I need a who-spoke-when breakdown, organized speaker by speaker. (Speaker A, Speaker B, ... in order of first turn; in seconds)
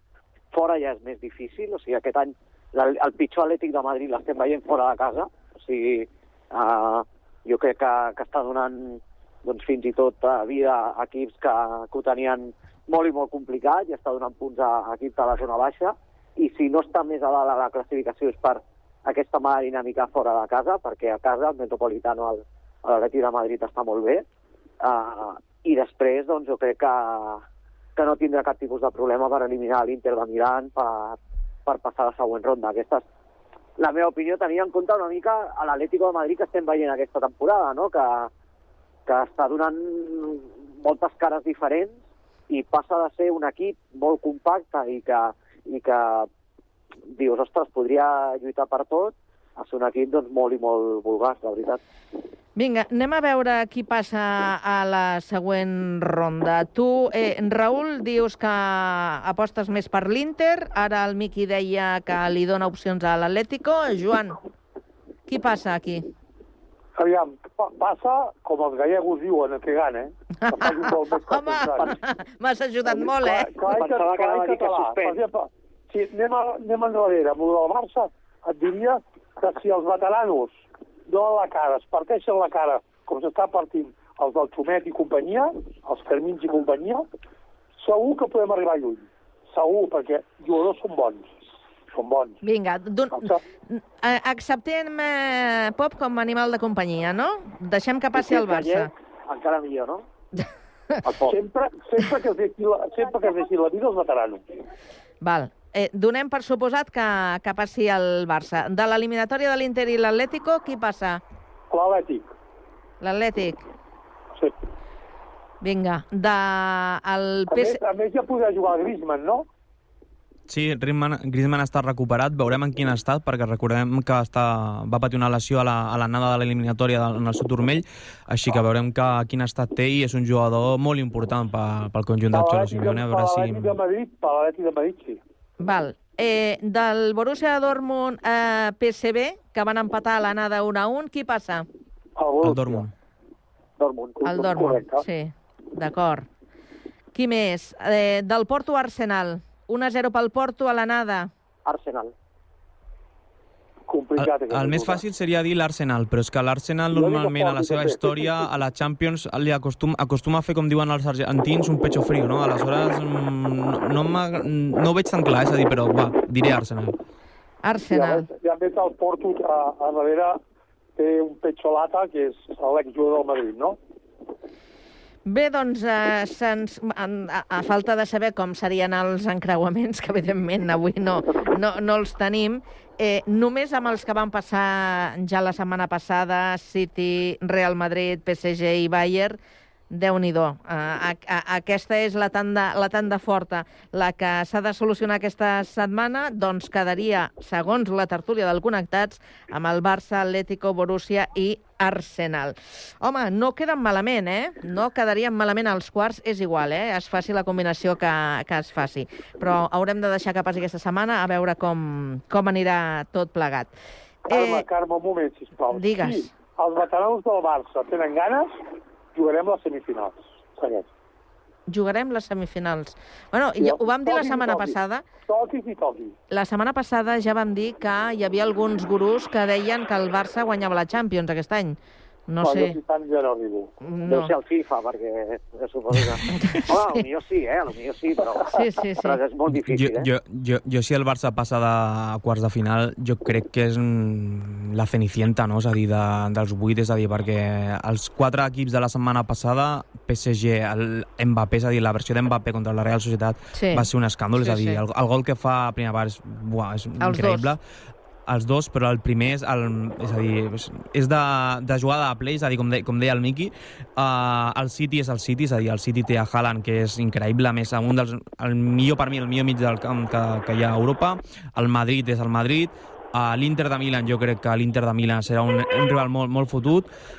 Speaker A: 0.5-24.2, 24.8-27.4, 28.0-33.0, 33.8-38.3, 39.1-42.0, 42.5-46.3, 47.1-51.8, 73.7-75.2, 98.1-100.0, 101.0-101.4, 143.8-144.2, 151.7-152.1, 234.1-238.5, 239.0-240.1
Speaker B: 52.6-64.4, 65.3-66.1, 70.4-73.5, 92.4-98.9, 105.2-111.2, 113.0-113.6, 115.6-117.8, 135.6-141.7, 144.2-146.3, 147.1-151.3, 167.6-168.3, 175.3-189.4, 189.9-213.7, 214.3-214.7, 215.7-216.3, 221.7-225.1, 226.3-232.8, 233.8-234.3, 236.3-236.7, 238.5-239.2, 253.5-253.8, 254.4-254.8, 257.0-257.5
Speaker C: 67.0-72.0, 72.8-87.0, 87.8-91.4, 91.9-92.4, 93.1-93.4, 101.2-104.4, 111.7-112.3, 117.5-119.5, 132.3-135.2, 142.2-142.9, 144.2-145.1, 153.9-155.0, 156.9-158.5, 167.9-170.4, 171.0-173.8, 214.3-218.6, 219.1-220.9, 223.6-226.2, 232.4-233.7
Speaker D: 120.5-133.8, 142.4-142.9, 154.2-167.0, 239.5-257.6, 258.3-276.9